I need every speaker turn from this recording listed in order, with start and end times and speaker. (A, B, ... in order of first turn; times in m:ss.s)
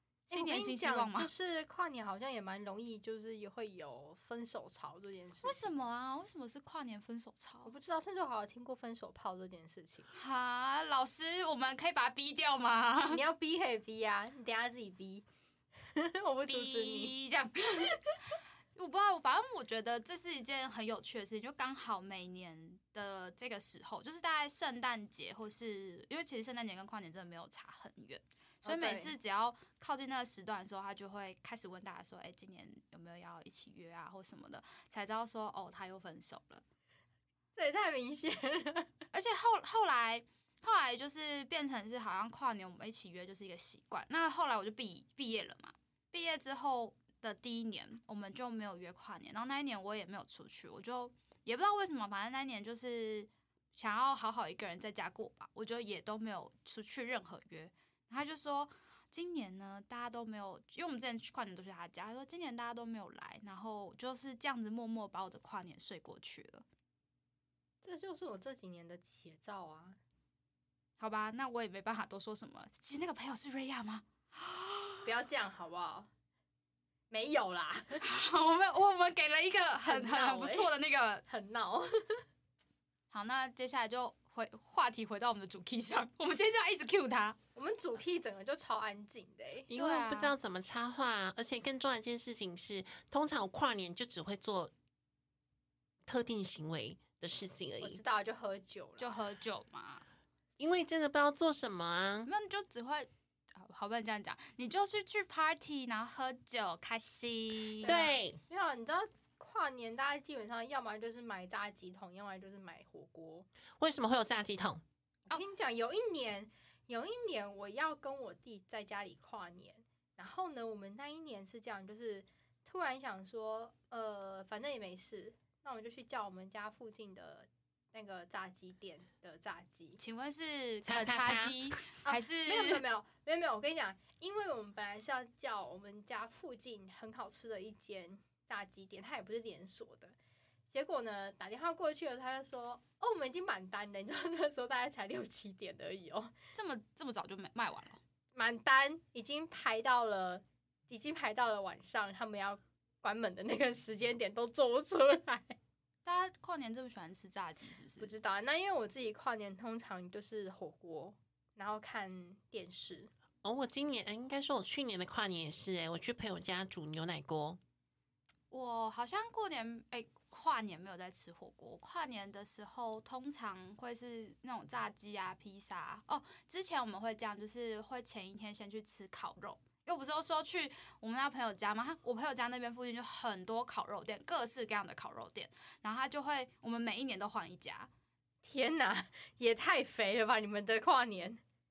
0:00.3-0:05.6 A
0:00.3-0:01.3 B
0:05.4-0:07.7 B
0:07.6-0:10.1 A
0:10.1-0:13.2 B
0:13.1-0:15.2 A
0:15.9-0:17.1 A
0:16.4-0:18.0 B
0:18.8-0:36.6 B
0:28.6-0:29.1 A
0:37.6-0:38.9 A
0:39.1-1:06.7 B
1:07.8-1:10.0 A
1:11.0-1:15.1 B
1:15.0-1:16.1 A
1:17.1-1:18.0 A
1:18.0-1:21.2 B
1:19.9-1:20.7 A
1:21.3-1:22.2 A
1:23.1-1:27.4 B
1:27.6-1:29.7 A
1:29.7-1:34.7 C
1:29.7-1:30.3 B
1:36.1-1:38.0 C
1:37.8-1:39.2 A
1:39.0-1:40.0 B
1:40.6-1:42.3 C
1:42.3-1:48.0 B
1:47.8-1:53.5 A
1:47.8-1:48.4 C
1:53.8-1:54.8 C
1:55.3-2:10.0 A
2:10.0-2:12.8 B
2:10.8-2:11.6 C
2:12.0-2:20.1 A
2:20.7-2:26.3 A
2:26.5-2:28.0 B
2:28.4-2:35.6 A
2:36.0-2:38.1 B
2:38.0-2:43.1 A
2:43.4-2:47.6 C
2:48.5-3:07.9 B
3:08.4-3:11.4 A